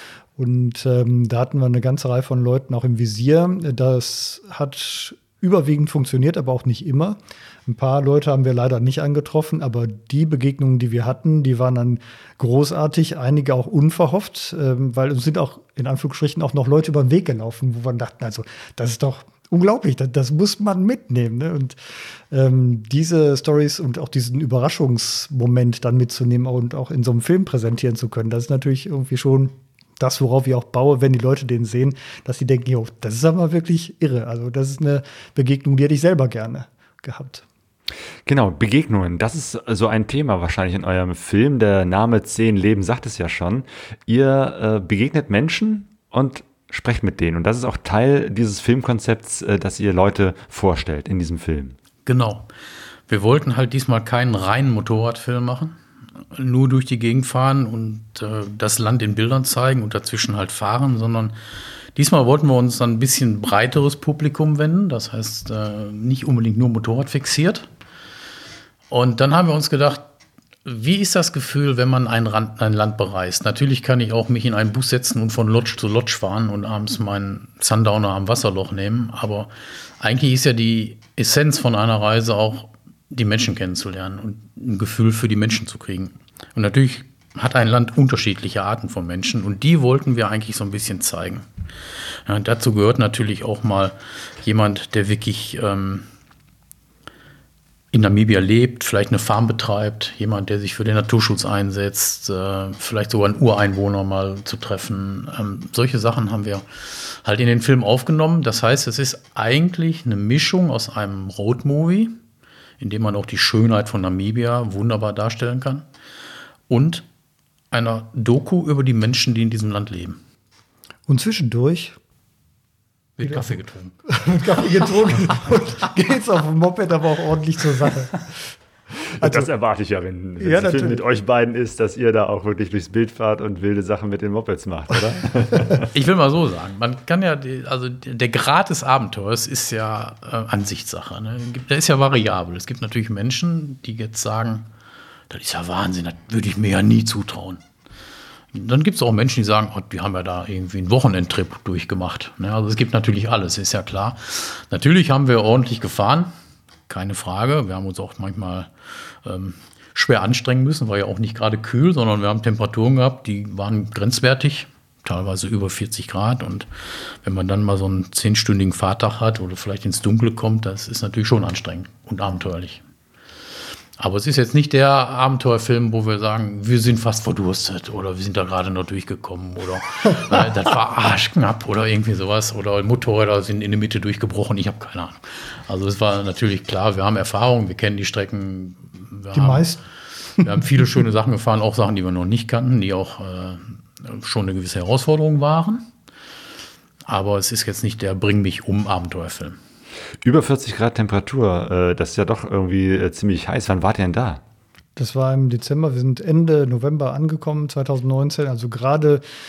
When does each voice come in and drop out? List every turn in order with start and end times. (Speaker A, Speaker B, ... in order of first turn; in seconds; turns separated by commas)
Speaker A: 0.3-21.8, Speaker A: 22.3-37.4, Speaker B: 38.2-51.8, Speaker C: 52.0-52.5, Speaker C: 53.1-55.8, Speaker C: 56.3-61.3, Speaker C: 62.0-67.7, Speaker C: 68.9-70.1, Speaker C: 70.6-91.5, Speaker C: 92.2-96.0, Speaker C: 97.9-112.1, Speaker C: 112.8-115.8, Speaker C: 116.7-117.0, Speaker C: 117.7-120.2, Speaker A: 121.1-122.0, Speaker C: 123.2-123.9, Speaker A: 124.1-128.2, Speaker B: 129.2-135.9, Speaker A: 129.2-129.5, Speaker A: 130.4-131.0, Speaker C: 135.9-144.7, Speaker C: 145.3-147.6, Speaker C: 148.5-156.3, Speaker C: 156.9-158.7, Speaker C: 159.2-172.8, Speaker C: 174.0-189.8, Speaker A: 189.3-189.8, Speaker A: 190.4-190.8, Speaker C: 190.4-195.8, Speaker C: 197.1-199.6, Speaker B: 200.2-204.4, Speaker A: 205.0-209.2